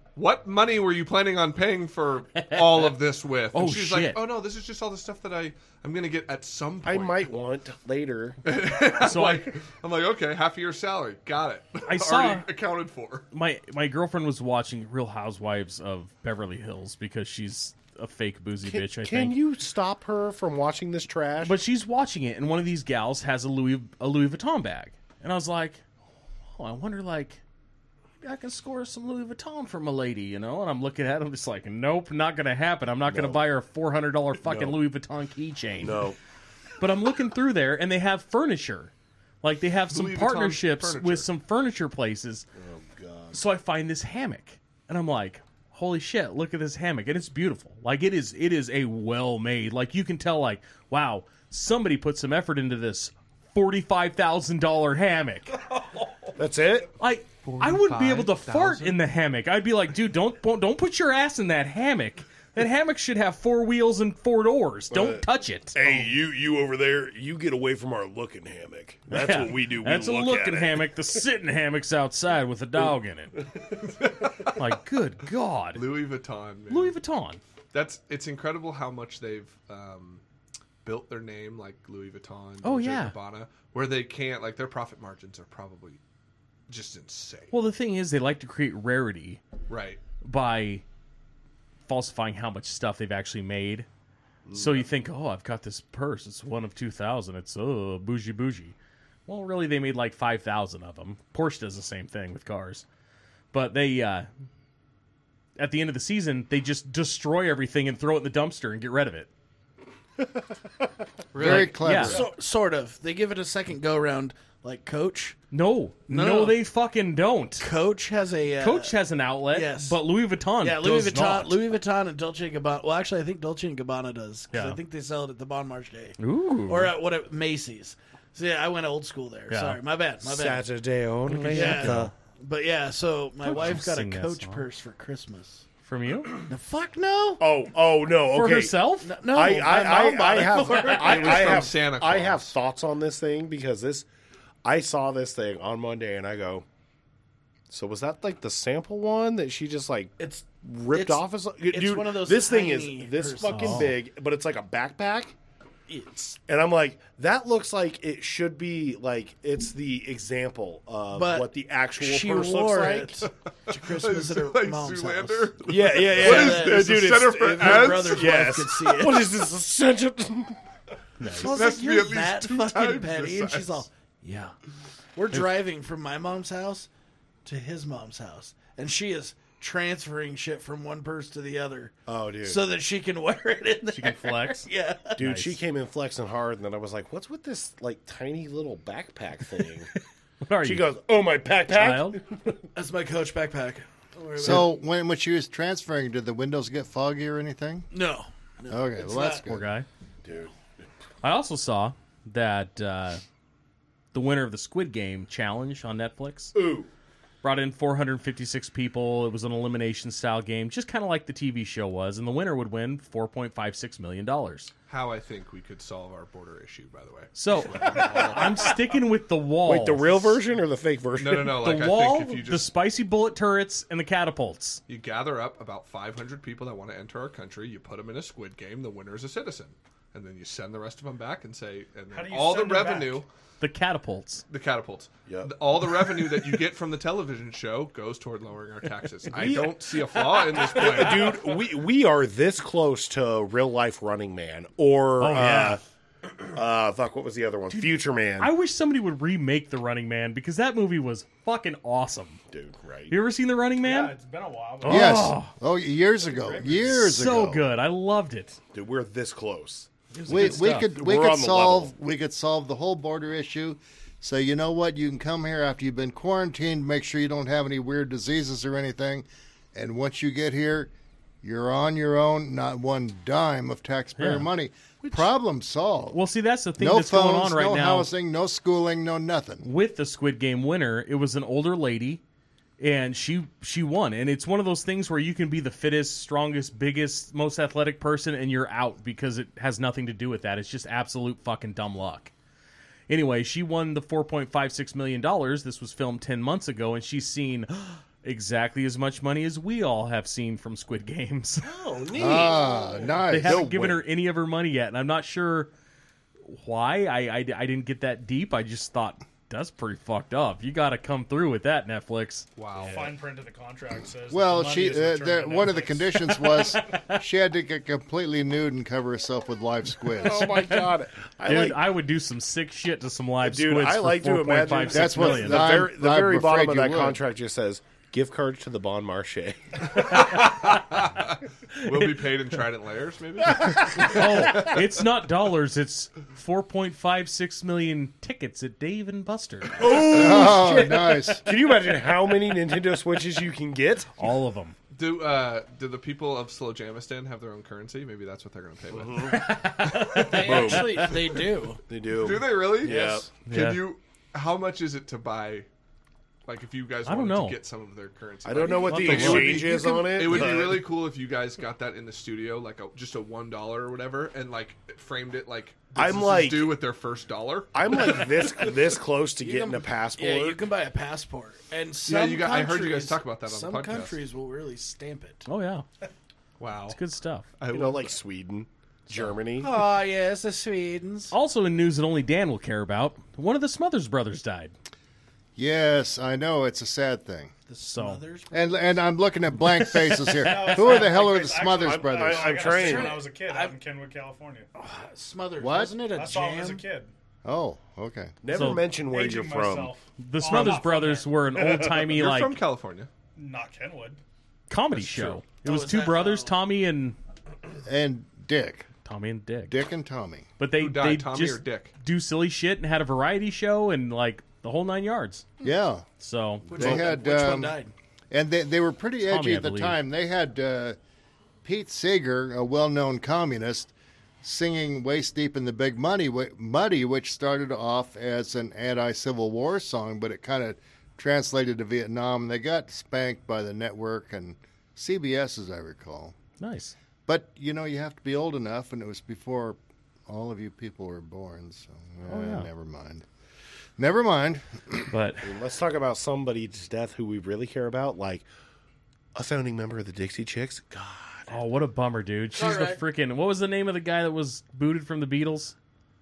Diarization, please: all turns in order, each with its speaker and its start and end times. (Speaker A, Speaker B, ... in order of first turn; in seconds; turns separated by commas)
Speaker A: 0.1-7.3, Speaker B: 3.5-4.2, Speaker C: 6.8-8.4, Speaker A: 8.4-13.3, Speaker B: 9.0-9.6, Speaker B: 11.8-12.4, Speaker B: 13.3-19.4, Speaker C: 18.7-21.6, Speaker B: 21.4-25.8, Speaker B: 26.6-27.4, Speaker B: 28.2-36.1, Speaker C: 33.1-33.4, Speaker C: 34.4-34.8, Speaker C: 35.8-36.2, Speaker B: 36.8-38.9, Speaker B: 39.4-42.5, Speaker A: 39.9-41.3, Speaker C: 42.6-43.4, Speaker B: 43.3-55.6, Speaker D: 55.7-56.3, Speaker C: 56.4-56.9, Speaker B: 57.0-66.1, Speaker A: 57.4-59.0, Speaker C: 64.9-70.9, Speaker B: 69.1-73.4, Speaker A: 74.0-74.5, Speaker B: 74.5-75.8, Speaker A: 75.7-77.0, Speaker B: 76.7-77.4, Speaker A: 77.7-80.2, Speaker A: 80.8-86.0, Speaker B: 82.6-83.1, Speaker A: 86.7-87.5, Speaker B: 87.5-89.4, Speaker A: 89.7-90.0, Speaker B: 90.2-90.8, Speaker B: 91.9-93.9, Speaker C: 94.5-94.9, Speaker B: 94.5-98.8, Speaker B: 99.3-102.8, Speaker B: 103.5-104.3, Speaker B: 105.6-109.3, Speaker A: 111.3-111.8, Speaker E: 111.3-112.3, Speaker B: 111.4-112.2, Speaker F: 112.0-115.4, Speaker B: 115.5-117.7, Speaker F: 116.1-116.6, Speaker F: 117.6-119.0, Speaker B: 118.6-121.6, Speaker F: 119.5-120.0, Speaker F: 120.6-130.7, Speaker B: 124.5-124.8, Speaker B: 126.2-126.9, Speaker B: 129.5-129.8, Speaker C: 130.2-132.1, Speaker B: 131.2-132.1, Speaker F: 131.5-135.7, Speaker B: 133.4-134.6, Speaker B: 135.8-136.4, Speaker F: 136.5-137.4, Speaker C: 137.4-144.1, Speaker B: 138.3-139.1, Speaker F: 139.0-141.7, Speaker A: 140.8-142.5, Speaker C: 144.6-146.7, Speaker C: 147.7-155.3, Speaker F: 150.2-153.9, Speaker B: 153.5-153.9, Speaker F: 155.9-156.3, Speaker C: 156.3-163.3, Speaker F: 161.1-169.3, Speaker A: 163.7-168.4, Speaker C: 165.7-170.6, Speaker B: 171.2-171.6, Speaker F: 171.2-174.5, Speaker A: 171.4-173.9, Speaker F: 175.2-176.9, Speaker F: 177.4-185.2, Speaker C: 182.1-182.6, Speaker B: 183.9-185.6, Speaker C: 185.2-189.9, Speaker B: 190.4-190.9, Speaker C: 190.6-192.6, Speaker B: 191.7-192.2, Speaker F: 192.7-194.7, Speaker E: 194.4-197.9, Speaker F: 197.9-199.5, Speaker E: 198.7-199.6, Speaker B: 199.4-199.9, Speaker C: 200.2-200.5, Speaker B: 201.2-203.2, Speaker B: 204.1-206.5, Speaker C: 206.5-206.9, Speaker B: 207.4-214.7, Speaker A: 214.9-218.7, Speaker B: 217.3-220.4, Speaker D: 217.9-218.5, Speaker C: 219.6-221.7, Speaker A: 221.2-222.7, Speaker B: 221.5-224.8, Speaker A: 224.9-233.3, Speaker D: 232.1-233.2, Speaker B: 233.6-234.4, Speaker A: 234.5-241.6, Speaker C: 235.3-235.5, Speaker C: 239.3-245.8, Speaker B: 245.2-245.8, Speaker C: 246.4-248.5, Speaker B: 247.7-252.4, Speaker C: 252.5-253.2, Speaker B: 253.1-254.1, Speaker D: 253.8-255.3, Speaker B: 254.8-255.5, Speaker E: 254.8-257.6, Speaker D: 256.2-257.1, Speaker B: 256.8-258.6, Speaker C: 258.7-261.9, Speaker B: 260.1-260.9, Speaker E: 260.3-270.9, Speaker E: 271.4-276.2, Speaker B: 274.2-274.5, Speaker B: 276.1-278.1, Speaker E: 276.8-279.7, Speaker B: 279.6-282.2, Speaker B: 282.8-292.3, Speaker B: 293.1-301.7, Speaker C: 301.6-304.0, Speaker E: 302.1-303.9, Speaker B: 303.3-305.7, Speaker B: 306.4-312.5, Speaker A: 312.6-313.1, Speaker D: 312.8-316.6, Speaker E: 314.3-320.7, Speaker C: 320.1-321.9, Speaker B: 320.5-320.9, Speaker B: 321.4-325.8, Speaker C: 323.4-330.3, Speaker E: 324.9-327.2, Speaker A: 330.0-334.8, Speaker B: 333.8-340.0, Speaker C: 339.8-344.3, Speaker E: 339.9-341.4, Speaker B: 344.2-344.8, Speaker A: 344.9-350.8, Speaker C: 348.9-351.3, Speaker B: 349.3-351.1, Speaker F: 350.1-351.8, Speaker C: 351.9-353.3, Speaker A: 352.1-355.7, Speaker F: 352.8-353.3, Speaker B: 353.4-353.8, Speaker A: 356.4-368.5, Speaker B: 357.1-357.6, Speaker C: 358.4-360.9, Speaker F: 358.7-360.4, Speaker B: 358.9-359.7, Speaker C: 365.9-366.8, Speaker C: 367.7-370.6, Speaker F: 369.4-375.5, Speaker A: 372.0-374.2, Speaker B: 375.4-375.8, Speaker A: 376.6-377.0, Speaker B: 376.9-377.5, Speaker A: 377.6-378.1, Speaker C: 377.7-379.8, Speaker F: 379.6-381.3, Speaker B: 381.3-384.7, Speaker E: 385.6-387.5, Speaker F: 387.7-388.9, Speaker B: 387.9-388.2, Speaker E: 388.5-392.5, Speaker B: 389.6-390.8, Speaker D: 390.3-394.7, Speaker C: 391.7-393.2, Speaker F: 392.6-393.8, Speaker F: 394.8-396.8, Speaker E: 395.6-396.0, Speaker D: 396.1-397.1, Speaker E: 397.4-398.4, Speaker C: 398.4-399.9, Speaker B: 398.5-398.8, Speaker D: 399.0-401.4, Speaker B: 400.2-402.6, Speaker A: 401.8-403.1, Speaker D: 403.4-404.2, Speaker B: 404.7-407.2, Speaker A: 404.9-405.4, Speaker F: 405.6-406.5, Speaker E: 407.8-408.9, Speaker B: 409.0-409.7, Speaker E: 409.7-410.5, Speaker B: 410.6-415.4, Speaker A: 410.7-411.9, Speaker E: 415.6-416.1, Speaker B: 416.2-416.8, Speaker F: 416.7-417.9, Speaker E: 416.7-417.8, Speaker E: 418.3-421.0, Speaker B: 419.3-420.0, Speaker E: 421.6-423.9, Speaker E: 424.4-436.4, Speaker B: 436.6-436.9, Speaker E: 437.3-443.2, Speaker B: 442.3-442.7, Speaker E: 444.0-445.1, Speaker B: 445.1-445.5, Speaker C: 445.4-448.4, Speaker C: 449.3-451.5, Speaker B: 451.5-455.7, Speaker F: 452.5-453.0